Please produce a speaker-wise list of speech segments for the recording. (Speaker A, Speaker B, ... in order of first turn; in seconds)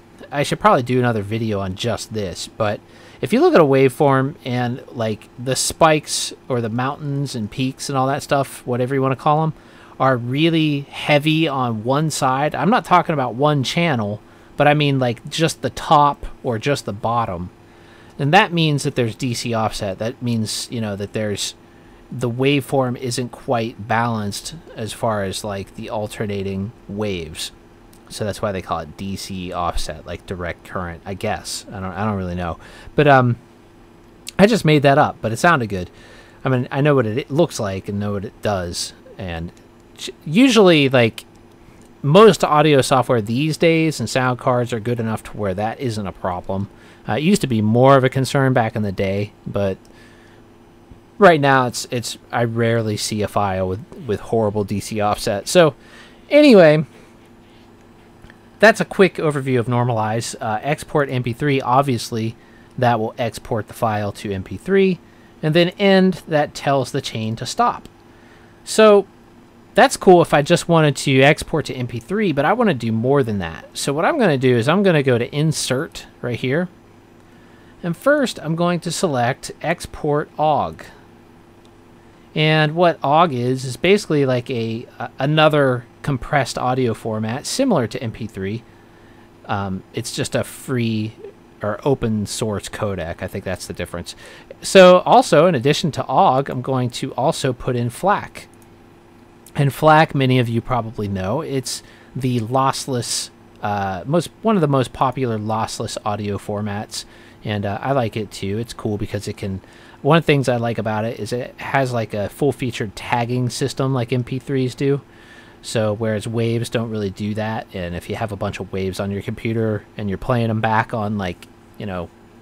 Speaker A: 0.3-17.5, 18.2-21.6, 22.1-27.5, 28.1-33.4, 34.4-35.9, 36.4-41.3, 42.0-49.8, 51.2-55.8, 56.3-56.9, 58.6-67.9, 68.7-69.1, 69.8-76.7, 77.8-80.9, 82.3-88.7, 89.5-98.5, 99.6-115.0, 115.6-122.1